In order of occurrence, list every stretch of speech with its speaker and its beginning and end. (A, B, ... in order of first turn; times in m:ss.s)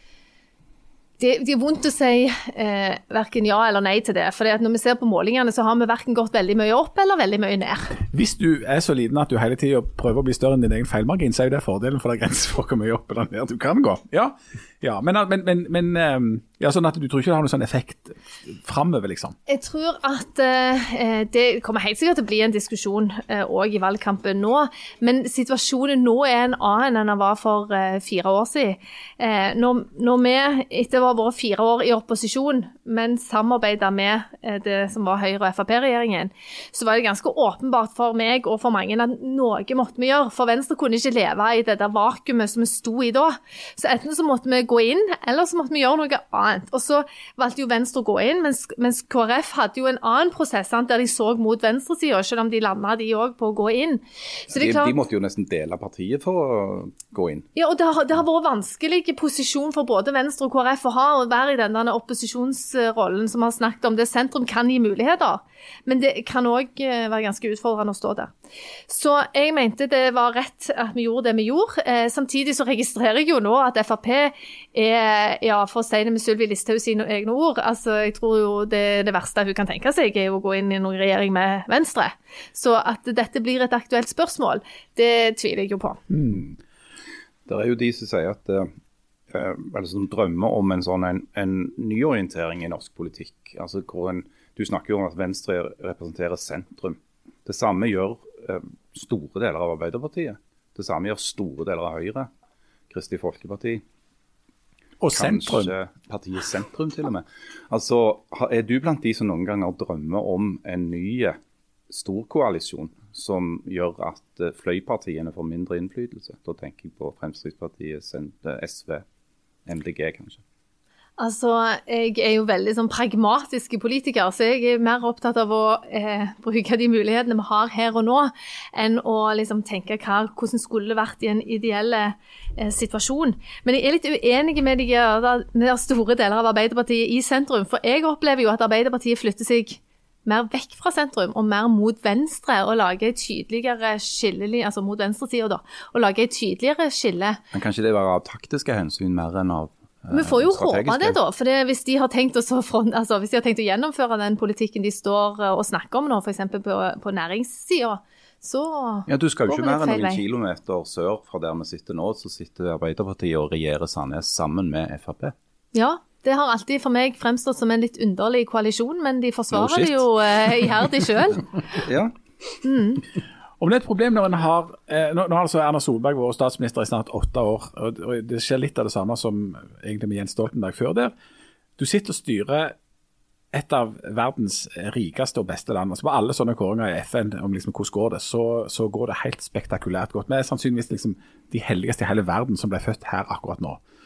0:01.2-0:08.0 A
0:08.1-0:19.4 B
0:19.5-0:55.0 A
0:54.5-0:57.5 C
0:57.6-1:08.3 A
1:08.9-1:26.0 A
1:26.1-1:26.4 B
1:26.3-1:26.6 C
1:27.5-1:28.7 C
1:29.3-1:42.3 C
1:42.9-1:43.8 C
1:45.0-1:45.7 B
1:45.1-1:51.4 C
1:51.9-1:59.0 C
1:59.7-2:00.4 C
2:01.2-2:27.4 A
2:27.5-2:31.2 C
2:30.1-2:40.2 A
2:39.1-2:45.4 C
2:45.7-2:51.4 A
2:49.5-2:50.1 C
2:51.7-2:52.2 C
2:52.6-2:53.0 A
2:53.6-3:01.1 B
3:01.8-3:02.8 B
3:03.5-3:13.8 B